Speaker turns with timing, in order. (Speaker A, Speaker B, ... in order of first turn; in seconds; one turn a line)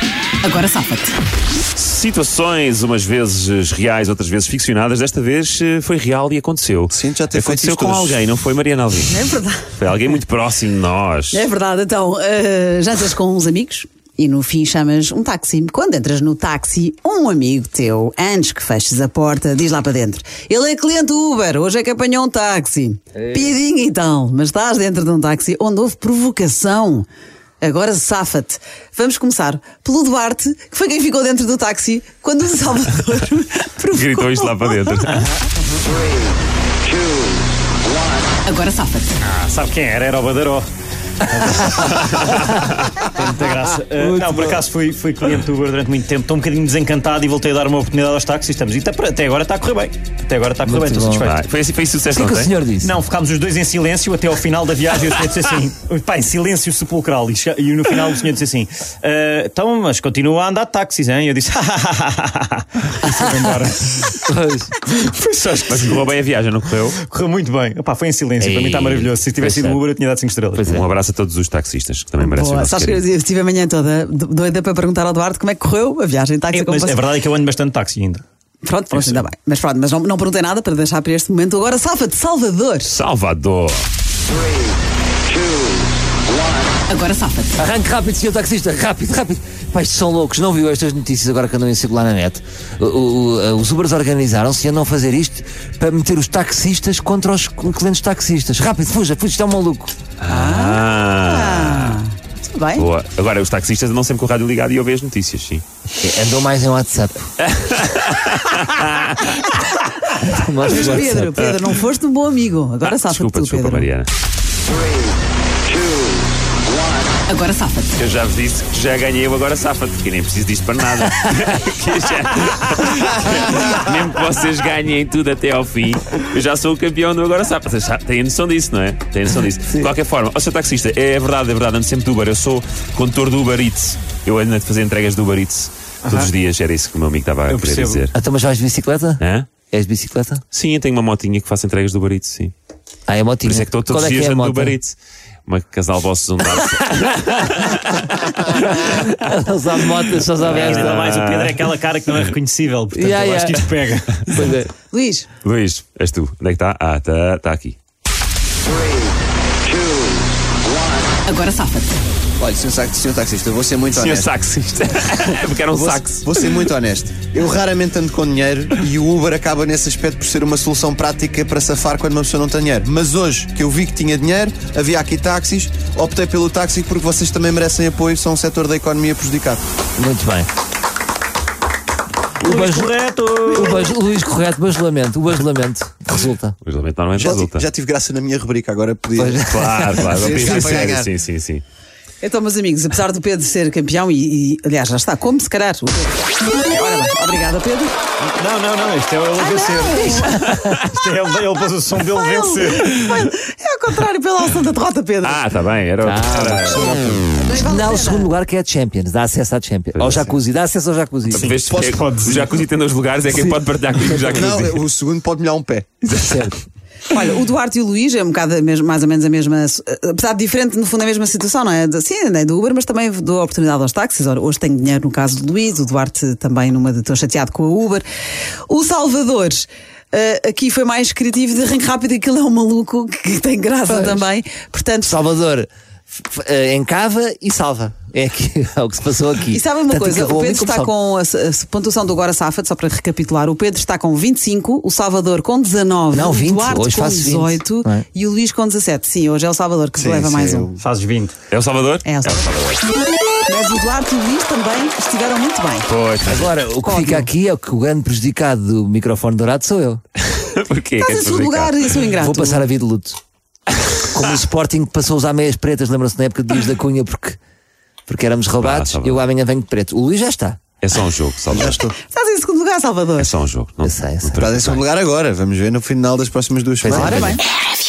Speaker A: 0.4-1.1
Speaker B: 1.8-9.2
Speaker C: 6.9-8.2
Speaker A: 9.1-9.8
Speaker B: 9.7-11.4
Speaker A: 11.3-27.1
Speaker A: 27.6-35.3
Speaker B: 33.9-35.3
Speaker A: 38.4-39.2
Speaker D: 39.2-40.7
Speaker D: 41.2-51.4
Speaker B: 42.0-42.9
Speaker E: 44.0-44.6
Speaker E: 50.6-51.3
Speaker B: 51.2-52.5
Speaker E: 52.1-52.9
Speaker D: 52.8-64.2
Speaker E: 64.3-64.7
Speaker D: 64.8-66.1
Speaker B: 65.5-67.0
Speaker D: 67.0-70.7
Speaker E: 68.4-69.8
Speaker E: 70.6-70.9
Speaker B: 70.6-73.0
Speaker A: 72.2-77.0
Speaker D: 76.5-78.2
Speaker A: 78.6-83.0
Speaker D: 78.9-79.2
Speaker B: 82.9-83.9
Speaker A: 86.9-87.5
Speaker E: 87.6-99.9
Speaker B: 100.2-102.0
Speaker A: 100.3-102.9
Speaker B: 102.8-105.6
Speaker E: 106.0-107.3
Speaker B: 107.4-109.6
Speaker E: 110.2-111.4
Speaker A: 110.6-113.9
Speaker B: 112.8-114.1
Speaker A: 117.3-117.9
Speaker B: 118.0-138.1
Speaker D: 136.1-136.3
Speaker D: 137.5-138.1
Speaker E: 138.1-140.4
Speaker B: 139.2-139.5
Speaker B: 140.5-142.5
Speaker E: 143.1-144.8
Speaker B: 143.4-149.0
Speaker E: 148.1-151.2
Speaker D: 150.4-154.5
Speaker B: 150.4-151.6
Speaker E: 152.9-153.7
Speaker E: 154.3-154.7
Speaker A: 154.9-155.3
Speaker B: 155.4-157.8
Speaker A: 161.2-162.0
Speaker C: 162.4-164.3
Speaker B: 163.9-166.6
Speaker C: 165.7-179.6
Speaker E: 180.0-180.5
Speaker D: 182.4-184.0
Speaker E: 182.4-182.9
Speaker E: 183.5-186.6
Speaker B: 186.6-187.7
Speaker C: 187.2-191.1
Speaker E: 189.2-190.5
Speaker B: 189.5-191.6
Speaker A: 192.2-198.0
Speaker D: 198.2-203.0
Speaker A: 199.3-200.6
Speaker A: 202.1-205.4
Speaker B: 205.2-207.2
Speaker E: 206.0-211.6
Speaker A: 207.4-208.3
Speaker B: 209.9-210.4
Speaker B: 211.3-214.8
Speaker C: 211.3-212.4
Speaker D: 211.9-212.4
Speaker C: 214.3-216.0
Speaker B: 216.1-216.5
Speaker E: 216.1-216.5
Speaker A: 217.1-228.1
Speaker A: 228.7-235.2
Speaker E: 233.9-234.2
Speaker E: 235.0-240.9
Speaker A: 239.5-250.7
Speaker E: 246.1-248.1
Speaker C: 250.0-250.8
Speaker D: 250.8-251.4
Speaker B: 251.5-252.8
Speaker A: 252.1-252.5
Speaker A: 253.5-255.9
Speaker B: 255.9-256.6
Speaker E: 256.2-260.0
Speaker A: 256.8-257.3
Speaker B: 260.2-261.8
Speaker A: 261.0-262.7
Speaker E: 262.2-263.2
Speaker E: 264.0-267.4
Speaker E: 268.1-270.6
Speaker B: 268.6-269.2
Speaker B: 270.8-271.8
Speaker C: 271.5-271.9
Speaker A: 271.9-273.4
Speaker B: 273.2-274.8
Speaker E: 273.8-274.4
Speaker C: 274.2-277.4
Speaker E: 276.8-277.4
Speaker A: 276.9-277.5